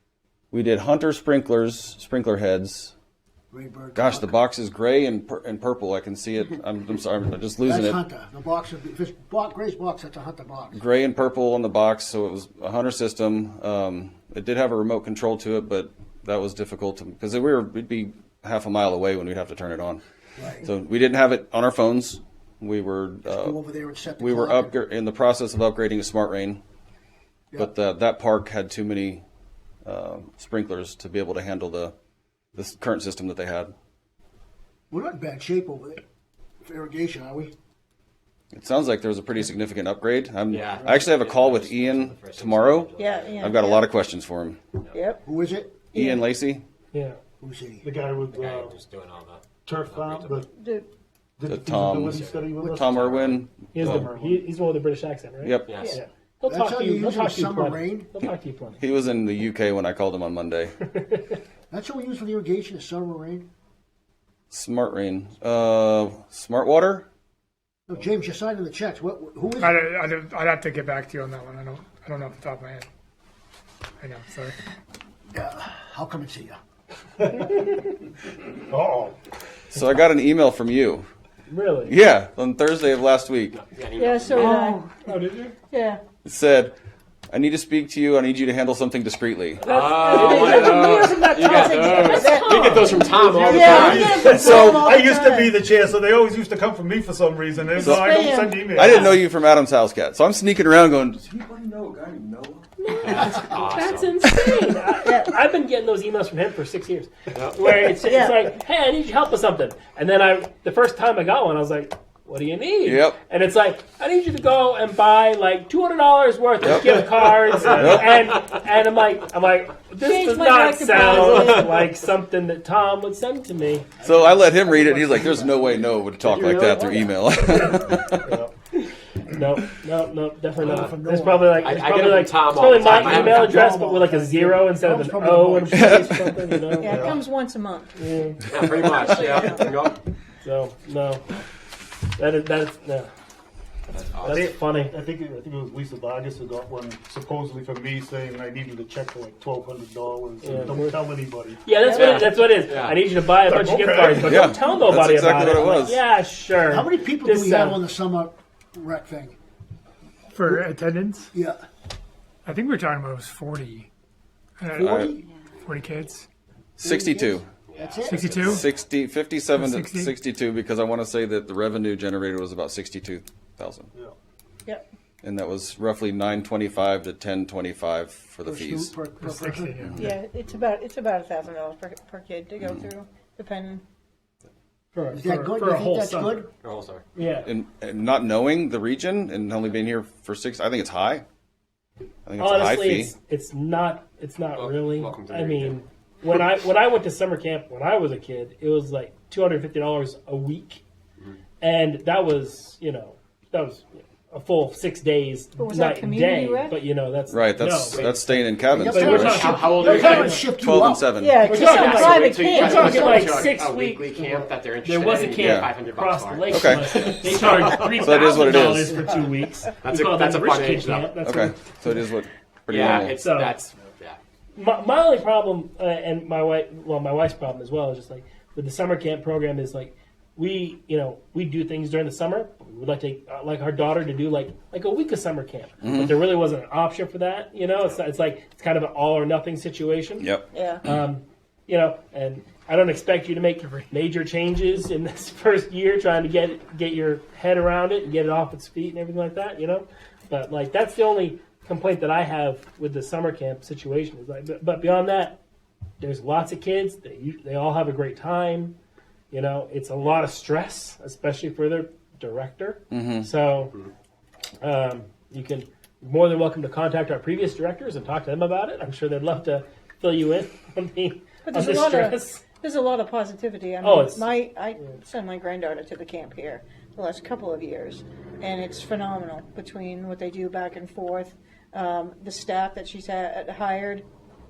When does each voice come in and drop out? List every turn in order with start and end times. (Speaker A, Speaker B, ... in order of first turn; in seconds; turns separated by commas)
Speaker A: 0.5-2.9, Speaker B: 3.5-4.3, Speaker A: 3.9-8.0, Speaker B: 7.6-10.8, Speaker A: 10.7-20.0, Speaker B: 20.4-20.7, Speaker A: 20.6-23.6, Speaker B: 23.3-24.7, Speaker A: 24.2-26.6, Speaker A: 27.5-29.2, Speaker A: 29.8-31.9, Speaker A: 32.5-33.7, Speaker B: 34.9-36.0, Speaker B: 36.6-37.5, Speaker A: 38.5-44.6, Speaker C: 40.5-43.6, Speaker D: 42.9-44.0, Speaker D: 44.9-45.2, Speaker B: 45.2-45.9, Speaker D: 45.9-46.2, Speaker A: 45.9-46.6, Speaker E: 46.9-47.2, Speaker B: 47.4-47.9, Speaker F: 47.8-48.8, Speaker C: 48.3-50.5, Speaker F: 49.6-50.5, Speaker D: 50.5-50.9, Speaker F: 51.4-54.5, Speaker A: 51.4-54.1, Speaker C: 52.1-52.4, Speaker B: 52.6-53.0, Speaker E: 53.7-58.8, Speaker A: 55.4-55.8, Speaker C: 55.6-56.0, Speaker B: 56.5-58.1, Speaker A: 58.8-60.7, Speaker E: 61.0-61.3, Speaker B: 61.7-63.5, Speaker A: 64.5-67.1, Speaker B: 67.9-69.8, Speaker G: 69.6-72.9, Speaker G: 74.0-74.5, Speaker B: 75.3-76.6, Speaker F: 78.7-79.2, Speaker A: 79.7-81.1, Speaker E: 81.5-82.0, Speaker A: 81.8-83.6, Speaker C: 83.5-84.6, Speaker D: 84.0-84.9, Speaker E: 84.3-85.5, Speaker D: 85.7-86.0, Speaker A: 86.2-86.8, Speaker A: 87.3-89.7, Speaker E: 89.6-94.4, Speaker C: 89.7-94.8, Speaker D: 89.7-95.6, Speaker F: 93.2-99.2, Speaker A: 94.4-94.8, Speaker A: 97.7-98.2, Speaker D: 97.8-99.1, Speaker A: 98.7-102.6, Speaker E: 102.8-123.9, Speaker C: 103.0-104.1, Speaker C: 107.3-107.9, Speaker D: 108.0-108.5, Speaker A: 112.8-113.2, Speaker A: 116.6-117.0, Speaker C: 117.5-118.4, Speaker A: 117.8-118.1, Speaker D: 120.0-121.8, Speaker B: 124.0-125.8, Speaker A: 124.0-128.3, Speaker E: 126.3-127.8, Speaker F: 128.3-128.5, Speaker E: 129.3-137.2, Speaker B: 130.6-131.7, Speaker C: 130.6-130.9, Speaker C: 131.6-133.6, Speaker B: 132.8-136.2, Speaker A: 135.7-136.6, Speaker D: 136.8-137.9, Speaker F: 136.8-137.2, Speaker E: 138.0-138.4, Speaker C: 138.4-140.0, Speaker D: 138.6-139.6, Speaker E: 140.4-141.2, Speaker E: 142.2-143.1, Speaker C: 143.9-144.5, Speaker E: 144.2-144.9, Speaker F: 144.2-151.6, Speaker E: 150.4-151.0, Speaker E: 151.6-157.8, Speaker D: 151.8-152.3, Speaker C: 151.9-153.0, Speaker F: 153.4-154.3, Speaker A: 154.2-156.0, Speaker B: 156.7-159.3, Speaker G: 160.3-161.3, Speaker B: 161.3-161.6, Speaker G: 162.4-163.9, Speaker G: 164.6-165.0, Speaker B: 164.7-165.3, Speaker A: 164.8-165.2, Speaker G: 165.6-166.2, Speaker A: 166.8-167.5, Speaker B: 166.8-168.4, Speaker C: 167.7-168.7, Speaker G: 168.1-168.7, Speaker A: 168.4-173.9, Speaker G: 169.5-170.1, Speaker A: 175.2-179.0, Speaker B: 178.4-179.9, Speaker G: 179.2-180.0, Speaker A: 179.8-180.1, Speaker D: 180.0-183.8, Speaker A: 182.6-182.9, Speaker E: 184.9-186.5, Speaker B: 185.1-186.5, Speaker C: 186.6-187.0, Speaker E: 187.1-187.5, Speaker A: 187.4-191.2, Speaker A: 192.2-193.2, Speaker E: 192.4-200.8, Speaker C: 194.5-195.8, Speaker E: 201.6-210.5, Speaker D: 205.6-206.8, Speaker A: 207.3-209.5, Speaker C: 207.9-208.2, Speaker B: 208.7-211.1, Speaker C: 208.9-210.4, Speaker A: 210.5-211.4, Speaker D: 211.1-213.3, Speaker E: 211.4-221.8, Speaker C: 211.6-218.8, Speaker B: 212.6-212.9, Speaker A: 215.4-215.7, Speaker A: 216.5-216.9, Speaker A: 217.9-218.9, Speaker C: 219.8-221.2, Speaker A: 221.2-223.2, Speaker C: 222.7-224.2, Speaker E: 222.8-223.5, Speaker E: 224.5-240.3, Speaker A: 235.8-236.2, Speaker A: 240.2-240.5, Speaker D: 240.5-240.8, Speaker E: 240.8-255.4, Speaker E: 256.0-258.8, Speaker E: 259.3-263.7, Speaker A: 262.9-263.3, Speaker E: 264.6-272.4, Speaker D: 271.4-284.0, Speaker E: 273.8-274.3